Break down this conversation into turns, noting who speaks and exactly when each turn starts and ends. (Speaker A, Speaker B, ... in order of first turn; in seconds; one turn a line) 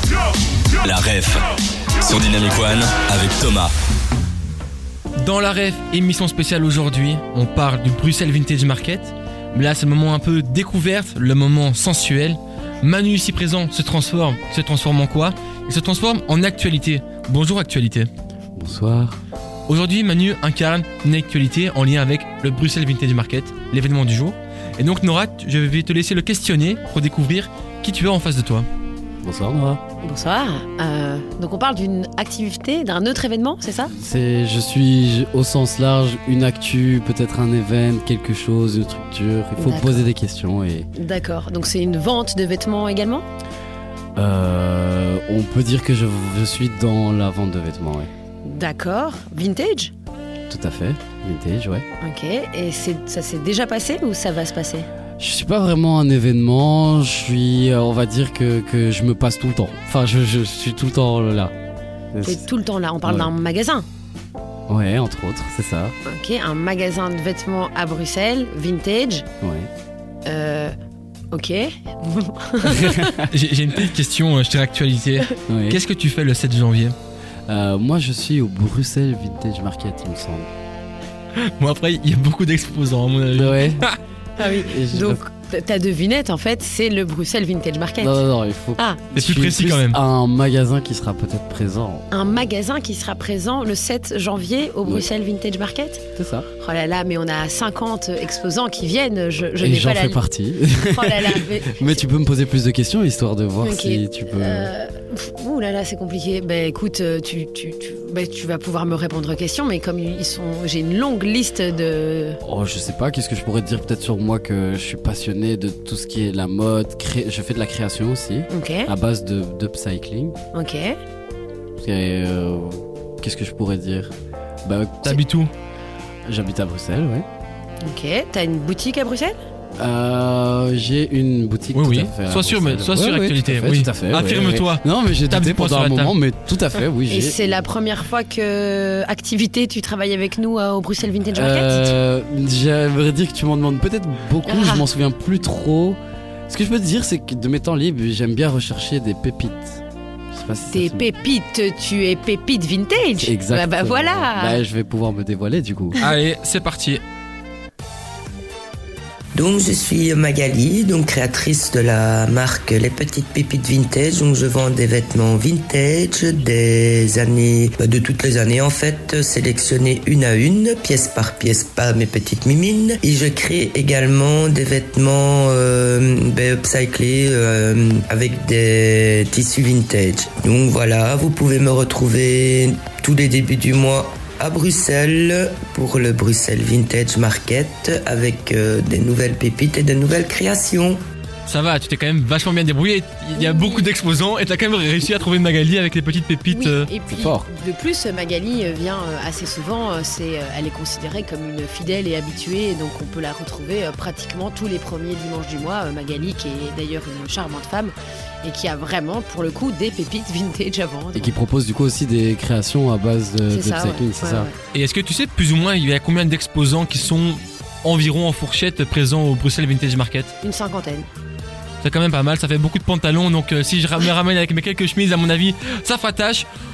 Speaker A: 0.8-1.5
Speaker A: 2.0-3.7
Speaker B: 5.2-18.1
Speaker C: 18.6-19.2
Speaker B: 19.7-28.7
Speaker C: 29.2-29.8
Speaker D: 30.0-33.9
Speaker C: 33.9-40.9
Speaker D: 39.6-40.1
Speaker D: 41.0-43.2
Speaker C: 44.2-48.1
Speaker D: 48.4-49.9
Speaker C: 50.5-51.9
Speaker D: 52.0-54.9
Speaker C: 55.2-61.5
Speaker C: 62.1-62.5
Speaker D: 62.2-63.9
Speaker C: 63.0-63.3
Speaker C: 64.7-66.0
Speaker D: 66.1-69.3
Speaker C: 69.4-69.7
Speaker D: 70.2-70.8
Speaker D: 71.3-73.2
Speaker C: 72.7-73.1
Speaker B: 73.3-77.0
Speaker C: 75.5-75.8
Speaker C: 77.5-80.5
Speaker B: 81.4-84.0
Speaker C: 83.4-83.9
Speaker D: 84.4-88.2
Speaker C: 84.5-85.2
Speaker C: 88.0-92.1
Speaker D: 88.8-89.0
Speaker B: 89.2-90.0
Speaker D: 92.1-96.0
Speaker C: 96.2-96.5
Speaker D: 96.6-100.2
Speaker C: 99.6-104.7
Speaker D: 100.8-102.0
Speaker D: 103.6-112.4
Speaker C: 112.4-120.4
Speaker D: 118.5-118.9
Speaker D: 120.5-121.0
Speaker C: 121.8-124.1
Speaker C: 124.7-125.2
Speaker B: 125.1-125.5
Speaker C: 126.3-127.3
Speaker D: 127.8-129.4
Speaker C: 129.8-137.5
Speaker B: 131.7-136.1
Speaker D: 137.1-142.0
Speaker C: 141.3-151.1
Speaker D: 144.5-144.9
Speaker D: 150.7-154.6
Speaker C: 153.2-156.0
Speaker B: 156.0-157.0
Speaker E: 159.3-191.0
Speaker B: 191.5-196.9
Speaker D: 193.4-193.9
Speaker D: 196.5-211.4
Speaker C: 197.1-197.4
Speaker C: 211.2-214.5
Speaker D: 213.5-214.6
Speaker B: 214.7-220.3
Speaker D: 220.4-221.1
Speaker B: 221.8-226.5